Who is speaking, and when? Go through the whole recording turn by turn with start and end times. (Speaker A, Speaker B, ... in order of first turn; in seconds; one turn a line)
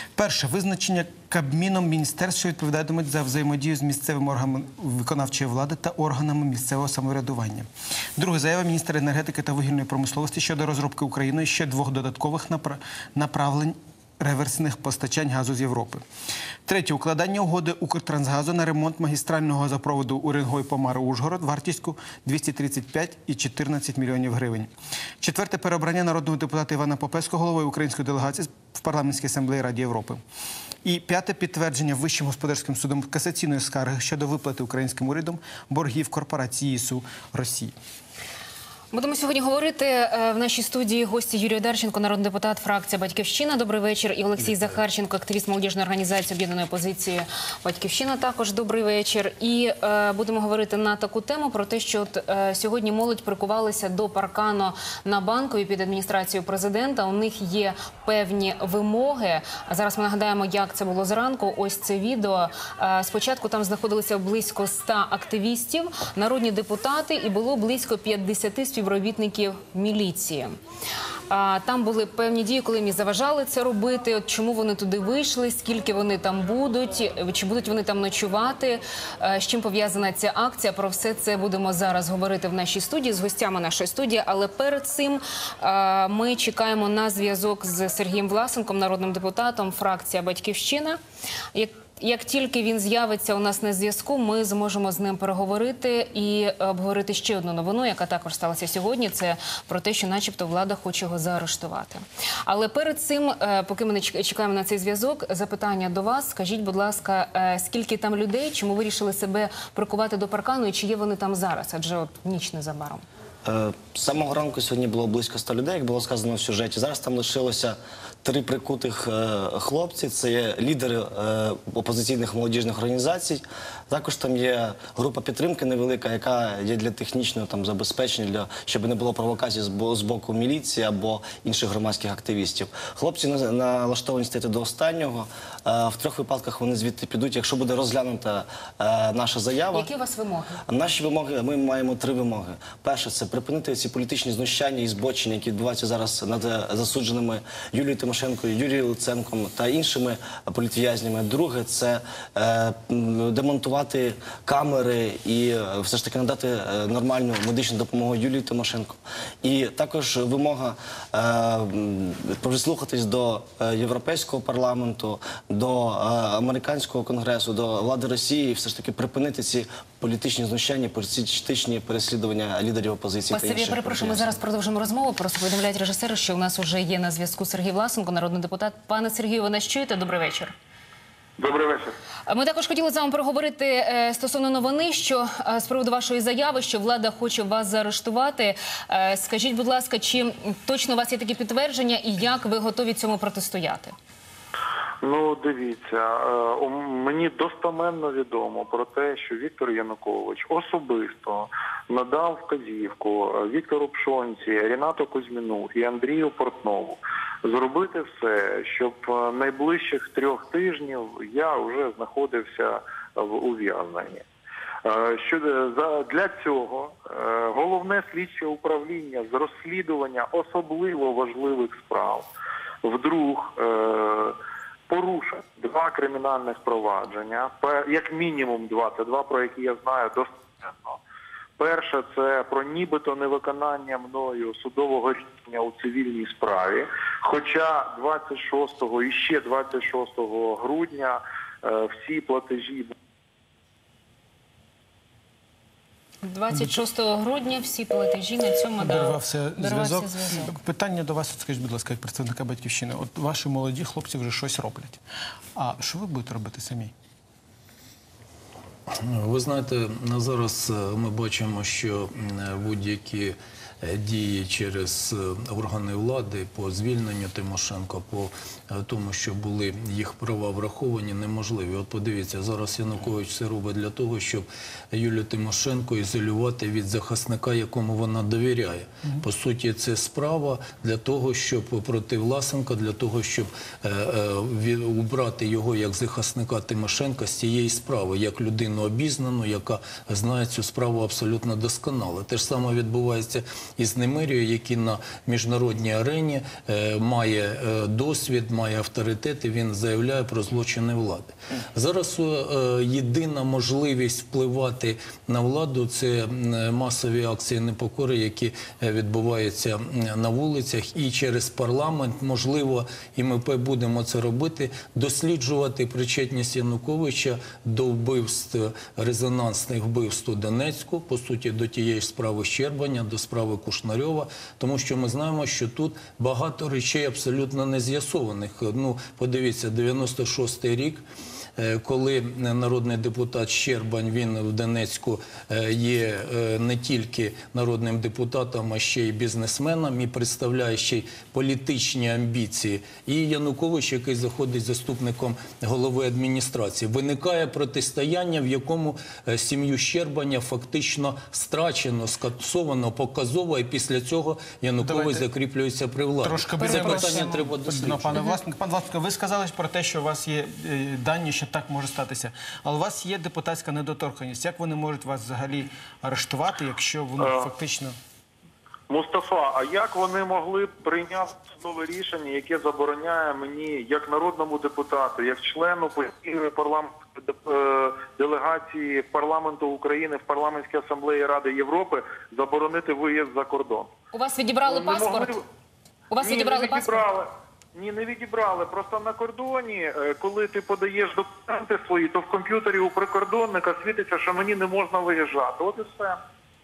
Speaker A: 0.1-16.0
Speaker A: 16.6-24.7
Speaker A: 25.2-30.2
Speaker A: 30.8-37.7
Speaker B: 38.9-70.5
Speaker B: 71.3-91.0
Speaker B: 91.5-113.0
Speaker C: 113.5-139.9
Speaker B: 139.7-140.6
Speaker C: 140.7-174.4
Speaker B: 173.3-180.5
Speaker D: 181.4-181.9
Speaker B: 182.3-193.9
Speaker D: 195.0-214.2
Speaker D: 214.8-222.3
Speaker D: 222.8-224.3
Speaker D: 224.9-231.0
Speaker D: 231.6-242.9
Speaker B: 246.2-250.5
Speaker A: 248.8-255.0
Speaker A: 255.5-256.9
Speaker E: 258.9-331.0
Speaker E: 331.6-358.2
Speaker A: 354.8-355.2
Speaker A: 356.2-367.9
Speaker B: 356.6-357.3
Speaker D: 367.2-367.4
Speaker D: 368.9-383.9
Speaker B: 384.1-385.4
Speaker D: 384.7-385.4
Speaker B: 386.1-387.0
Speaker D: 386.2-396.2